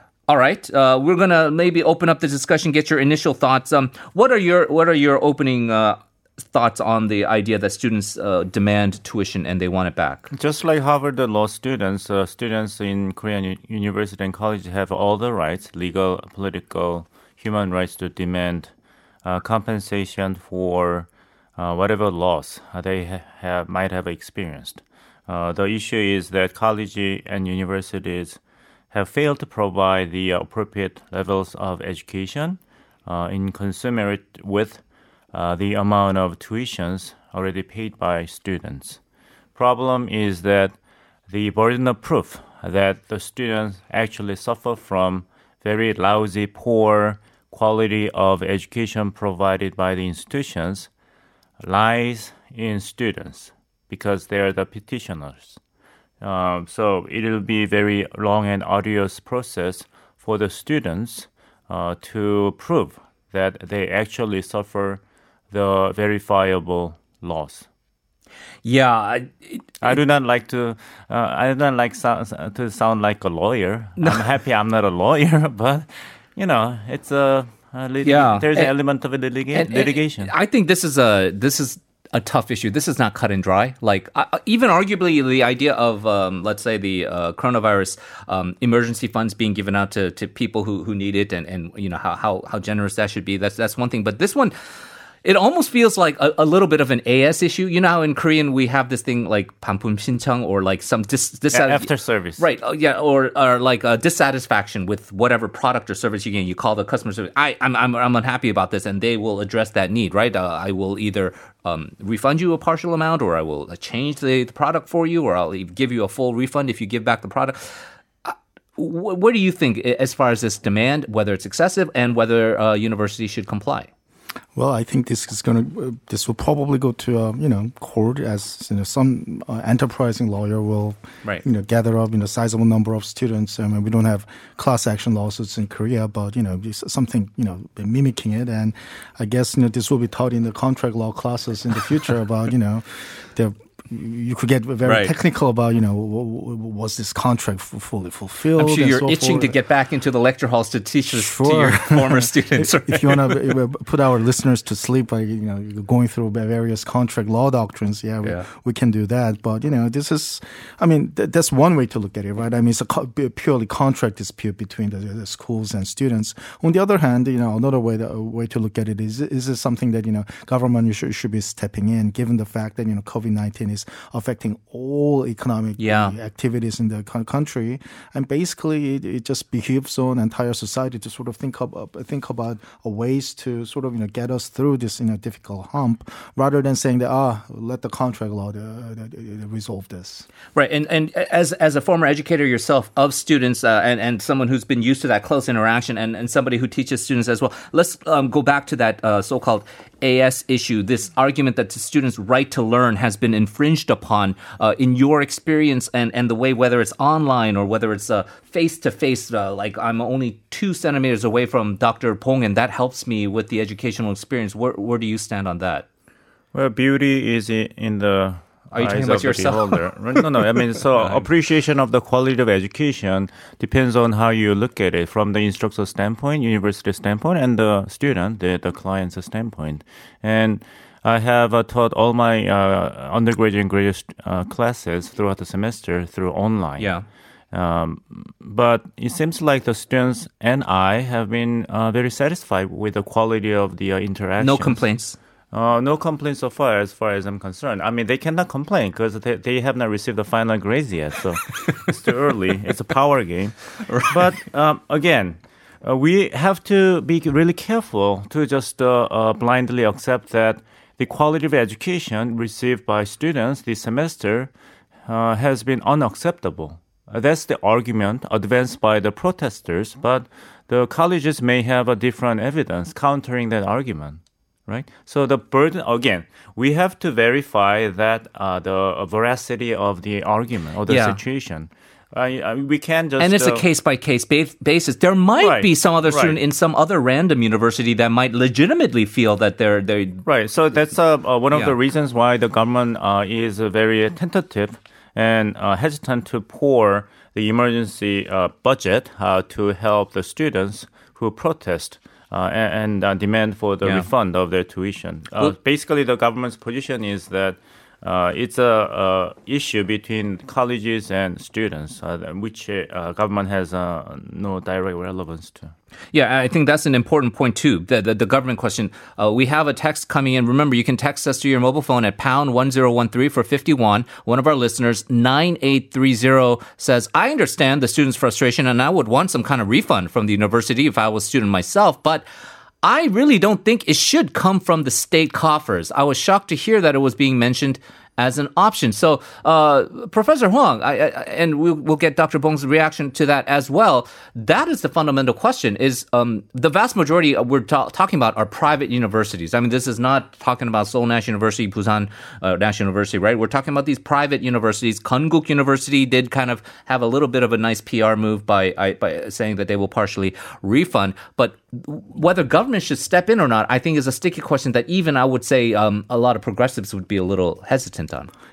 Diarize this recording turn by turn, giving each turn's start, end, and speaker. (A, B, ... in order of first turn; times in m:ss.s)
0:00.3-0:10.3 A
0:10.3-0:18.7 B
0:19.2-0:28.4 B
0:28.9-0:34.8 B
0:35.3-0:39.0 B
0:39.6-0:40.8 B
0:41.3-0:50.9 B
0:51.6-0:55.6 B
0:56.2-1:07.7 B
1:08.6-1:09.7 A
1:09.8-1:20.3 B
1:14.0-1:14.3 A
1:18.0-1:18.7 A
1:19.5-1:34.5 A
1:35.2-2:03.9 A
1:41.5-1:42.4 B
2:04.6-2:29.6 C
2:24.8-2:25.2 A
2:28.6-2:33.6 A
2:31.1-3:10.3 C
2:55.8-2:56.2 A
3:10.6-3:35.9 A
3:36.5-3:56.9 B
3:38.7-3:41.3 A
3:56.8-3:57.0 A
3:57.5-4:04.8 B
4:04.4-4:05.2 A
4:05.5-4:24.5 B
4:13.8-4:14.3 A
4:25.1-4:43.6 B
4:40.9-4:41.2 A
4:43.2-4:50.2 A
4:45.4-4:46.4 B
4:50.2-5:15.7 B
5:16.1-5:32.3 A
5:32.8-6:08.3 A